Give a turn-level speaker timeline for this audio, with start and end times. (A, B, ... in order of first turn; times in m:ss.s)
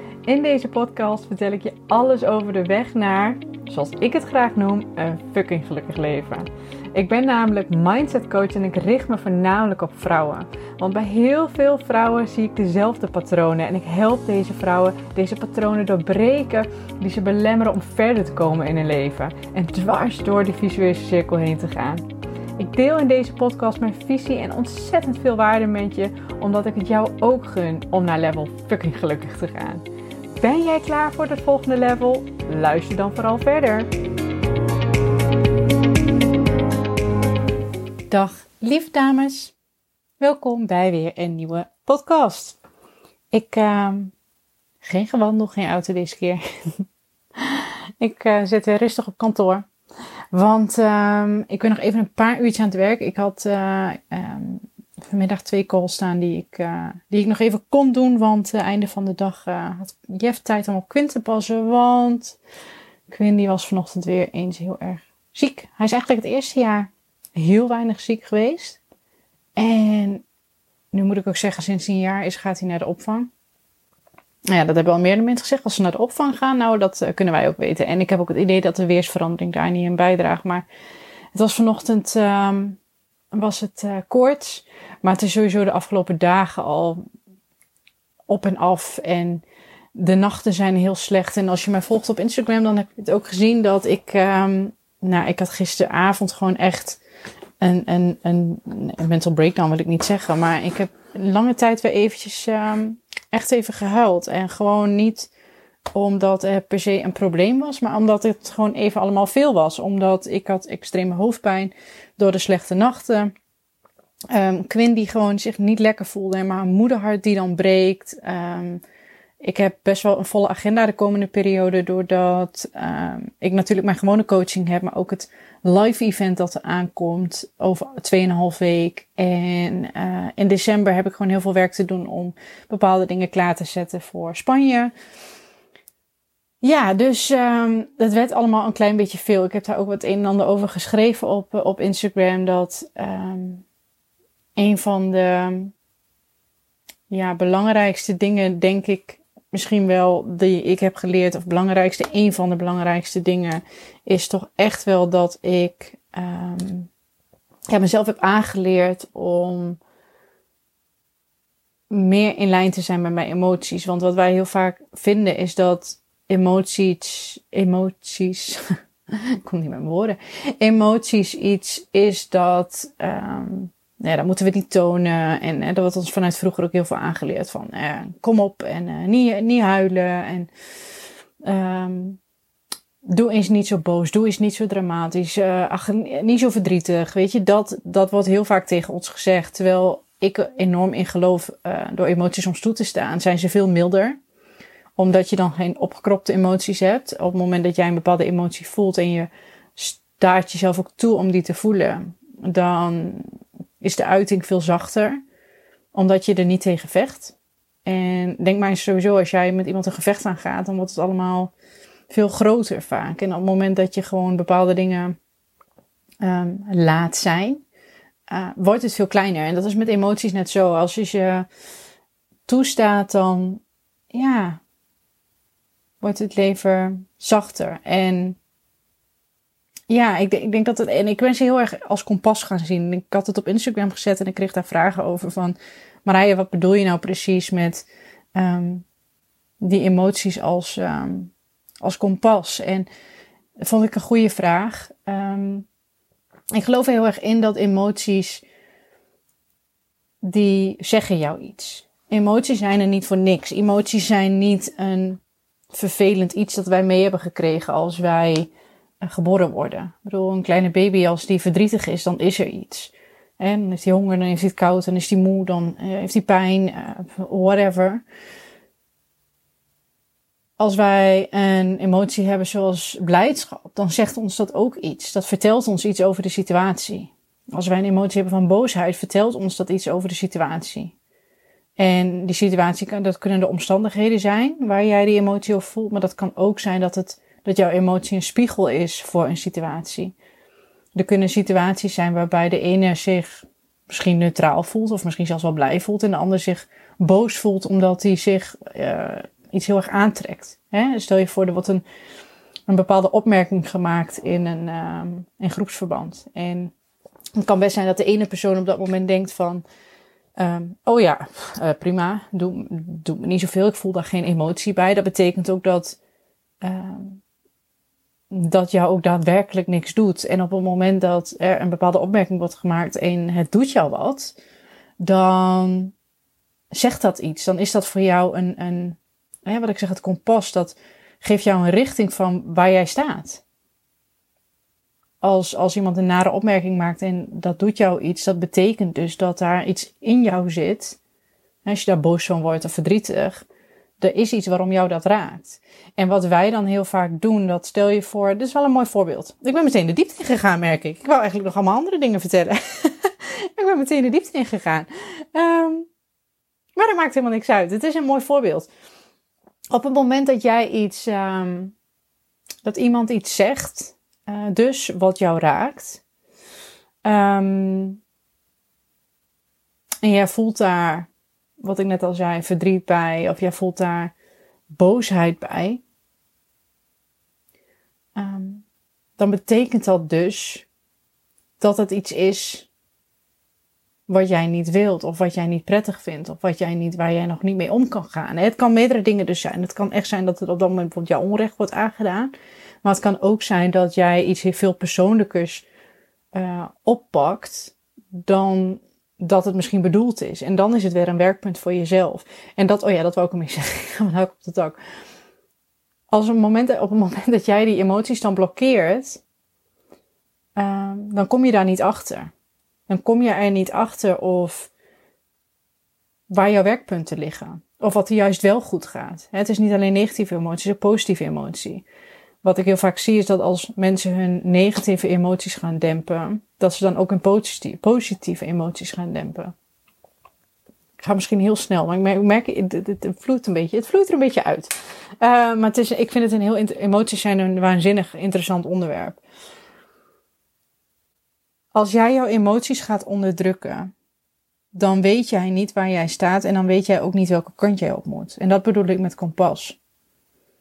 0:00.2-0:22.0 A
0:22.6-0:29.8 A
0:30.4-0:33.9 A
0:38.1-0:39.5 A
0:40.2-0:42.6 A
0:43.3-0:44.1 A
0:44.8-0:46.4 A
0:47.4-0:49.7 A
0:50.3-1:02.4 A
1:03.1-1:08.8 A
1:09.6-1:10.2 A
1:10.9-1:13.3 A
1:14.5-1:20.6 A
1:21.3-1:22.8 A
1:23.3-1:27.0 A
1:28.3-1:37.0 A
1:37.6-1:45.3 A
1:45.9-1:53.3 A
1:54.3-1:58.8 A
1:59.4-2:14.9 A
2:16.6-2:23.6 A
2:24.6-2:25.7 A
2:27.1-2:36.9 A
2:37.7-2:39.8 A
2:41.9-2:48.6 A
2:49.4-3:00.5 A
3:01.4-3:02.2 A
3:03.0-3:14.2 A
3:15.0-3:25.2 A
3:25.9-3:31.5 A
3:32.1-3:35.2 A
3:36.2-3:37.6 A
3:38.3-3:41.4 A
3:42.5-3:44.6 A
3:46.0-3:48.4 A
3:49.9-3:58.8 A
3:59.6-4:02.9 A
4:03.6-4:05.7 A
4:06.5-4:08.4 A
4:10.2-4:15.2 A
4:15.7-4:18.5 A
4:19.0-4:28.0 A
4:30.6-4:40.9 A
4:41.8-4:50.1 A
4:50.9-5:01.8 A
5:02.7-5:06.7 A
5:07.4-5:09.6 A
5:10.4-5:16.0 A
5:16.6-5:17.2 A
5:18.3-5:24.3 A
5:25.0-5:25.9 A
5:26.7-5:33.4 A
5:35.2-5:41.0 A
5:41.6-5:43.4 A
5:44.0-5:55.9 A
5:56.8-5:58.7 A
5:59.7-6:01.7 A
6:02.6-6:06.0 A
6:07.0-6:08.0 A
6:10.0-6:11.1 A
6:11.6-6:14.1 A
6:14.7-6:15.8 A
6:18.1-6:18.6 A
6:19.2-6:20.7 A
6:21.6-6:22.7 A
6:24.1-6:32.3 A
6:32.8-6:35.6 A
6:36.3-6:44.8 A
6:46.1-6:49.2 A
6:50.6-6:52.3 A
6:52.9-6:54.7 A
6:56.3-7:01.8 A
7:02.4-7:09.5 A
7:11.0-7:19.2 A
7:21.7-7:23.9 A
7:24.7-7:29.8 A